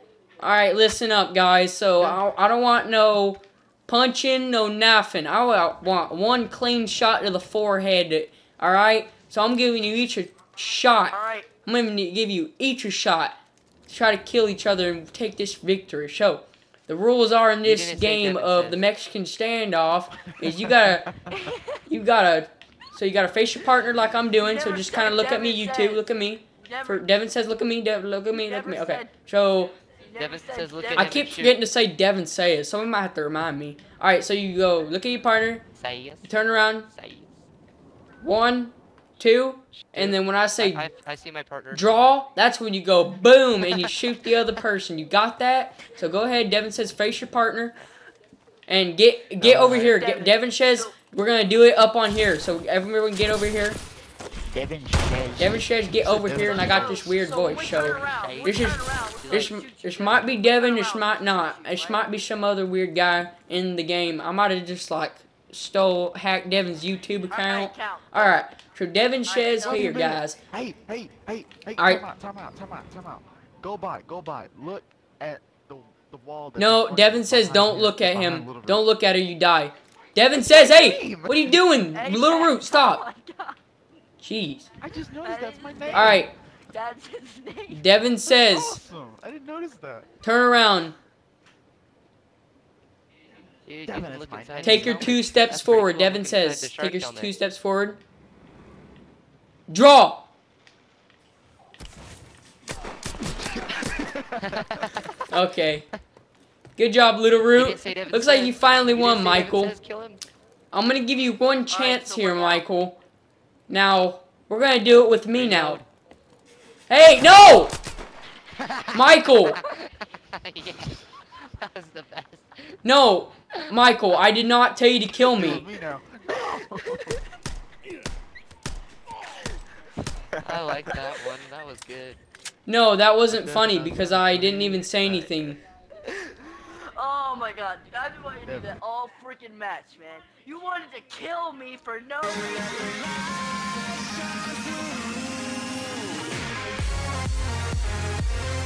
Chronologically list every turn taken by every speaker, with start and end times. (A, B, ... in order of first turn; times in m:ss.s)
0:00.4-0:13.3 A
0:11.1-0:11.5 B
0:13.9-0:21.1 A
0:17.6-0:18.8 C
0:20.4-0:21.5 D
0:21.4-0:21.8 B
0:21.9-0:29.8 A
0:24.4-0:26.1 B
0:26.6-0:27.1 B
0:28.3-0:29.1 B
0:30.0-0:31.4 B
0:30.2-0:31.6 C
0:30.9-0:35.6 A
0:35.7-0:36.3 C
0:36.2-0:36.9 A
0:36.9-0:37.3 C
0:38.2-0:40.9 A
0:39.8-0:42.0 C
0:41.7-0:47.7 A
0:48.7-0:53.8 A
0:49.4-0:49.8 C
0:49.8-0:50.9 B
0:54.5-0:57.1 D
0:55.4-1:10.4 A
0:56.6-1:02.0 B
0:58.2-0:59.6 C
1:07.3-1:08.4 B
1:09.3-1:09.9 B
1:09.6-1:18.8 D
1:11.8-1:12.0 A
1:16.6-1:23.0 A
1:20.3-1:21.7 D
1:21.9-1:23.6 B
1:24.2-1:24.7 A
1:24.8-1:26.3 D
1:25.2-1:28.6 B
1:25.9-1:26.3 A
1:27.7-1:28.8 A
1:28.4-1:30.1 D
1:30.2-1:31.0 A
1:33.6-1:37.3 C
1:33.8-1:35.3 D
1:34.6-1:38.0 A
1:39.7-1:40.3 A
1:43.6-1:44.6 D
1:44.4-1:45.2 C
1:45.3-1:45.8 A
1:46.8-1:49.7 A
1:47.5-1:50.2 C
1:50.7-1:53.0 A
1:51.7-1:52.6 B
1:53.7-1:55.8 A
1:55.3-1:55.8 C
1:56.9-1:57.8 A
1:58.9-1:59.6 A
1:59.5-2:02.8 C
2:02.8-2:05.6 A
2:05.2-2:07.1 D
2:10.3-2:10.9 D
2:10.4-2:12.2 C
2:12.7-2:15.6 A
2:13.3-2:15.4 D
2:16.1-2:23.0 B
2:18.4-2:18.7 D